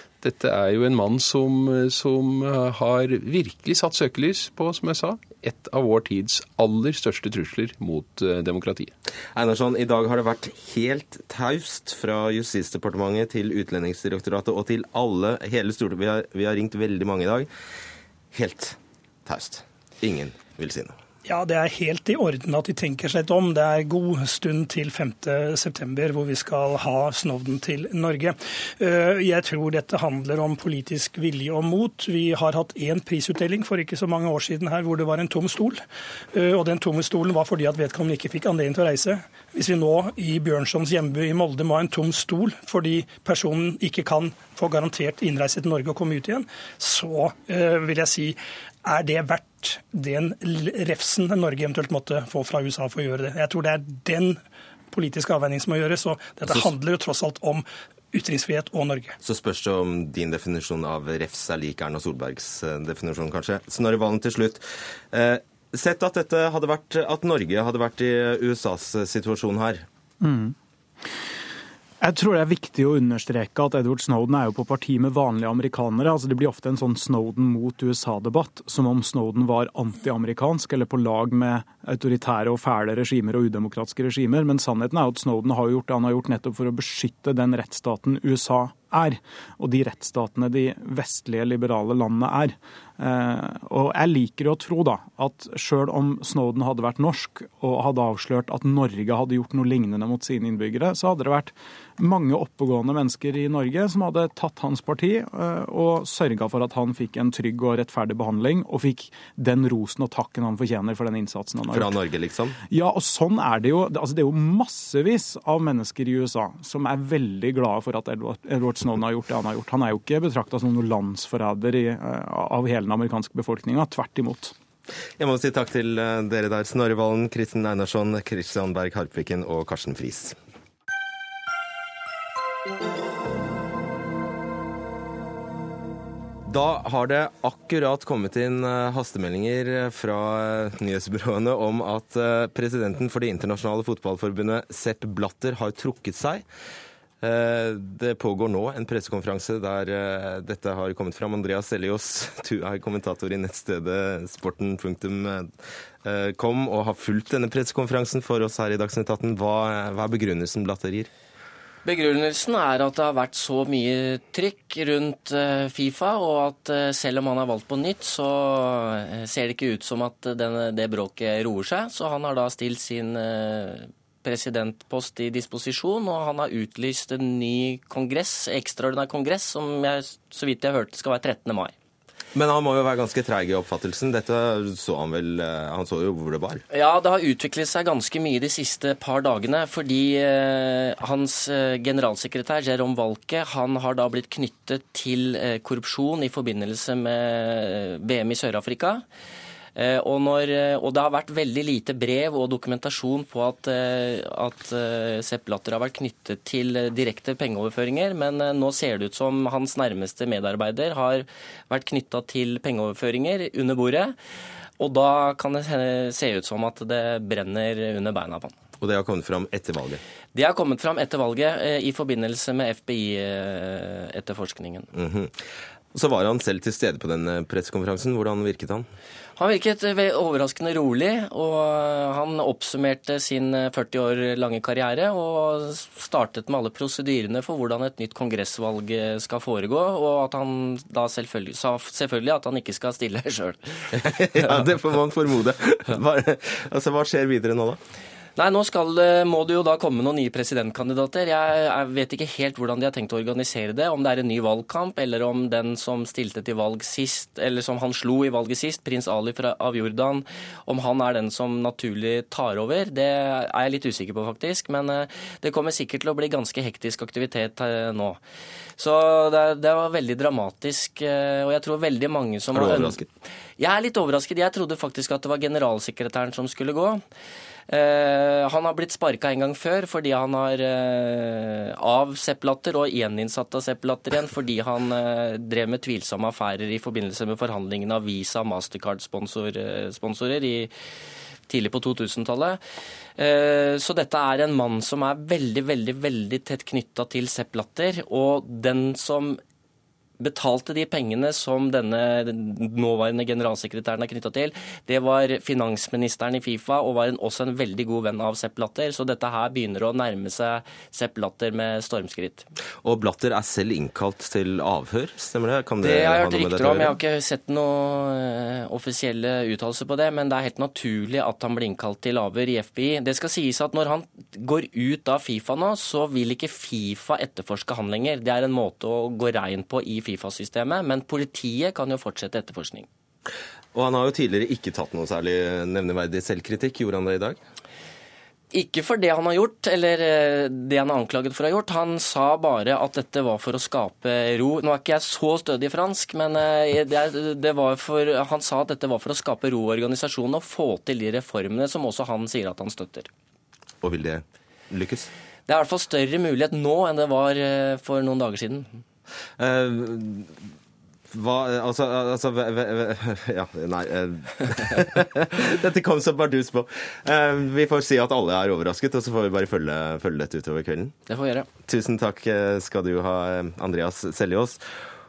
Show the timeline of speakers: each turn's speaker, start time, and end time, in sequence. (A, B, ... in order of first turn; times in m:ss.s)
0:00.2-0:08.9 A
0:09.4-0:17.5 B
0:18.3-0:20.9 B
0:21.2-0:35.8 C
0:36.3-0:54.4 C
0:54.9-0:59.2 C
0:56.4-0:56.7 B
0:59.2-1:09.8 B
1:10.2-1:10.6 D
1:12.0-1:52.0 D
1:51.7-1:52.6 B
1:52.7-2:04.5 D
2:05.2-2:10.4 B
2:16.5-2:26.4 B
2:27.2-2:41.1 B
2:41.8-3:01.7 E
3:02.4-3:06.6 B
3:06.7-3:19.0 E
3:19.8-3:34.2 E
3:34.8-3:38.6 E
3:38.8-3:40.0 B
3:40.3-3:44.9 E
3:44.9-3:48.9 B
3:49.4-4:03.8 E
4:04.1-4:07.8 B
4:08.4-4:28.2 E
4:28.8-4:33.0 E
4:32.5-4:33.1 B
4:33.6-4:37.0 E
4:37.7-4:50.7 E
4:51.5-4:52.6 E
4:53.2-4:59.4 E
5:00.2-5:12.5 E
5:12.8-5:17.0 B
5:15.8-5:32.9 E
5:33.7-5:37.4 B
5:38.5-5:53.1 E
5:53.8-5:55.1 B
5:55.5-5:58.8 E
5:59.4-6:00.4 B
6:01.1-6:10.9 B
6:11.1-6:11.5 E
6:11.7-6:14.6 B